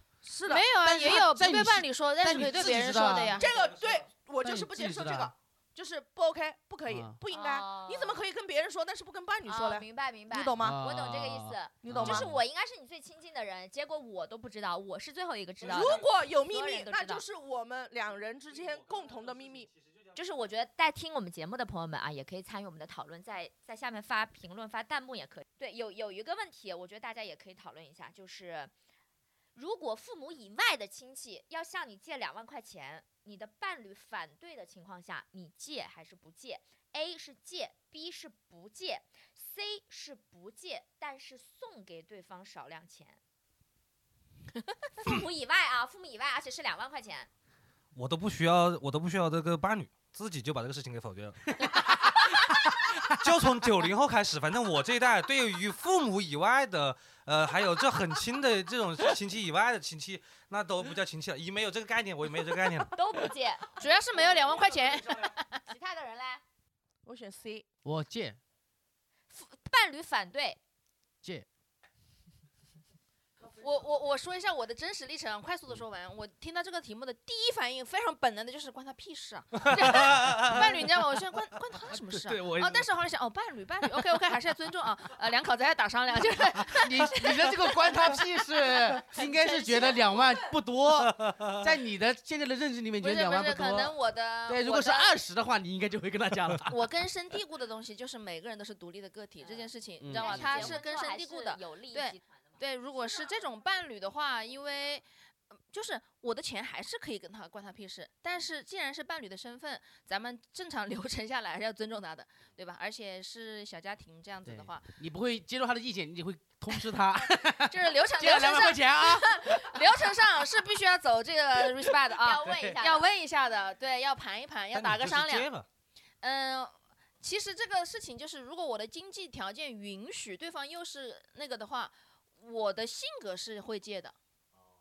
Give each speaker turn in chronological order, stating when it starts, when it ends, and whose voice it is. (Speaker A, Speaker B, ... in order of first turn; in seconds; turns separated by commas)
Speaker A: 0.2-0.7, Speaker B: 0.5-3.5, Speaker C: 0.8-3.4, Speaker A: 3.1-10.8, Speaker D: 3.5-4.0, Speaker C: 4.4-5.3, Speaker C: 6.8-7.2, Speaker E: 7.3-8.2, Speaker E: 9.4-17.2, Speaker C: 10.6-12.4, Speaker A: 11.8-12.3, Speaker A: 15.6-19.7, Speaker D: 18.5-20.1, Speaker E: 20.1-28.7, Speaker E: 29.5-43.2, Speaker E: 45.0-47.3, Speaker D: 47.9-52.4, Speaker C: 51.6-52.1, Speaker D: 53.1-63.0, Speaker E: 62.9-63.8, Speaker B: 63.7-65.6, Speaker E: 65.6-66.4, Speaker A: 67.0-67.6, Speaker C: 67.8-68.4, Speaker B: 69.3-70.1, Speaker E: 69.4-70.6, Speaker B: 73.5-88.1, Speaker D: 79.6-80.9, Speaker D: 81.8-82.9, Speaker C: 86.7-94.0, Speaker B: 89.1-90.3, Speaker D: 91.0-91.8, Speaker B: 93.0-95.1, Speaker C: 94.5-96.8, Speaker B: 96.7-105.0, Speaker E: 99.4-102.4, Speaker C: 100.0-100.7, Speaker B: 105.7-114.9, Speaker C: 114.4-120.5, Speaker B: 117.2-125.5, Speaker E: 122.1-123.1, Speaker D: 122.4-122.8, Speaker D: 124.7-125.7, Speaker B: 126.2-134.1